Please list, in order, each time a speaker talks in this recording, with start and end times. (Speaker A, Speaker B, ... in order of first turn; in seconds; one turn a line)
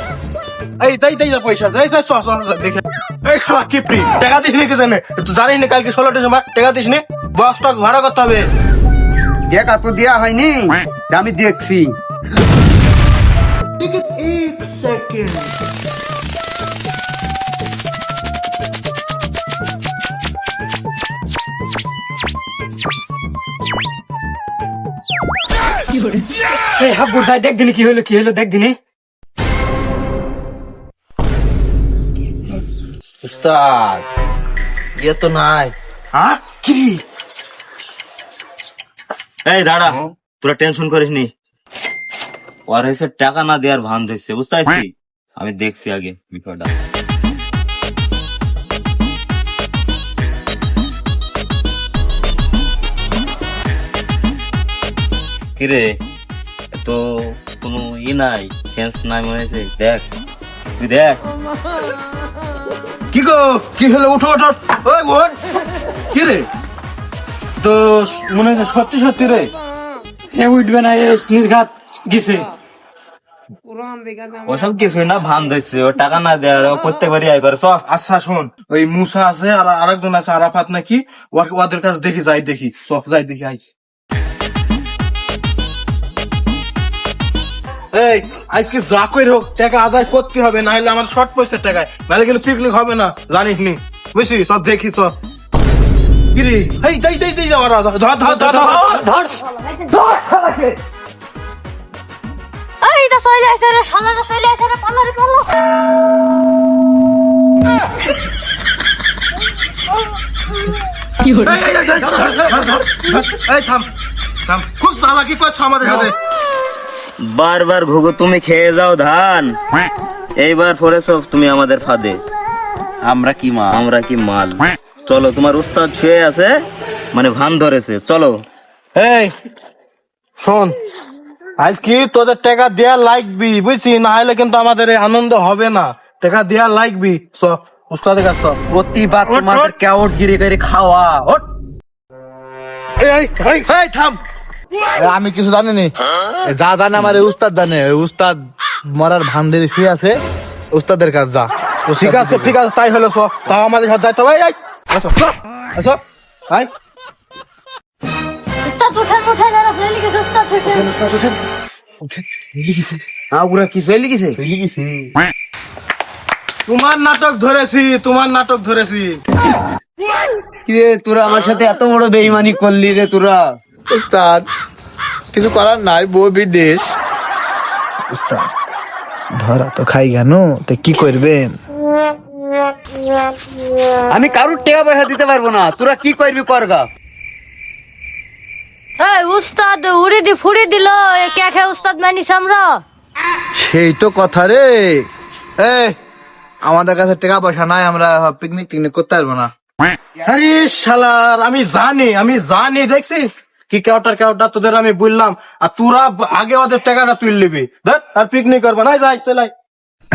Speaker A: 0.8-8.5
Speaker B: 9.5-12.0
Speaker C: 14.0-15.4
Speaker D: 26.8-28.8
Speaker B: 33.2-34.0
Speaker B: 35.0-35.7
Speaker E: 39.5-41.3
Speaker E: 42.7-46.7
Speaker E: 55.6-56.0
Speaker E: 56.8-60.1
Speaker E: 60.8-61.2
Speaker A: 63.1-65.3
Speaker A: 66.1-66.5
Speaker A: 67.6-69.5
Speaker D: 70.3-72.5
Speaker E: 74.5-77.8
Speaker A: 77.9-83.6
Speaker A: 87.9-95.2
Speaker A: 96.3-98.9
Speaker D: 98.3-100.8
Speaker F: 102.8-105.6
Speaker A: 111.5-113.9
Speaker A: 114.5-116.1
Speaker E: 117.2-119.6
Speaker E: 120.4-122.2
Speaker B: 123.0-123.8
Speaker E: 123.7-126.6
Speaker E: 127.1-128.4
Speaker A: 128.9-129.3
Speaker A: 130.4-130.8
Speaker A: 131.6-138.6
Speaker B: 138.7-141.4
Speaker A: 139.3-139.6
Speaker A: 143.0-143.8
Speaker C: 145.0-145.9
Speaker C: 146.4-150.2
Speaker C: 150.7-152.5
Speaker A: 152.0-156.7
Speaker F: 158.6-160.9
Speaker B: 160.7-161.3
Speaker B: 162.1-164.4
Speaker C: 164.4-165.0
Speaker A: 166.7-169.2
Speaker B: 170.7-173.6
Speaker C: 173.9-174.5
Speaker C: 175.3-176.9
Speaker C: 178.1-178.5
Speaker C: 179.4-181.5
Speaker B: 184.1-186.9
Speaker F: 189.0-192.8
Speaker C: 193.6-195.1
Speaker C: 195.6-195.9
Speaker C: 196.6-199.5
Speaker A: 200.3-209.5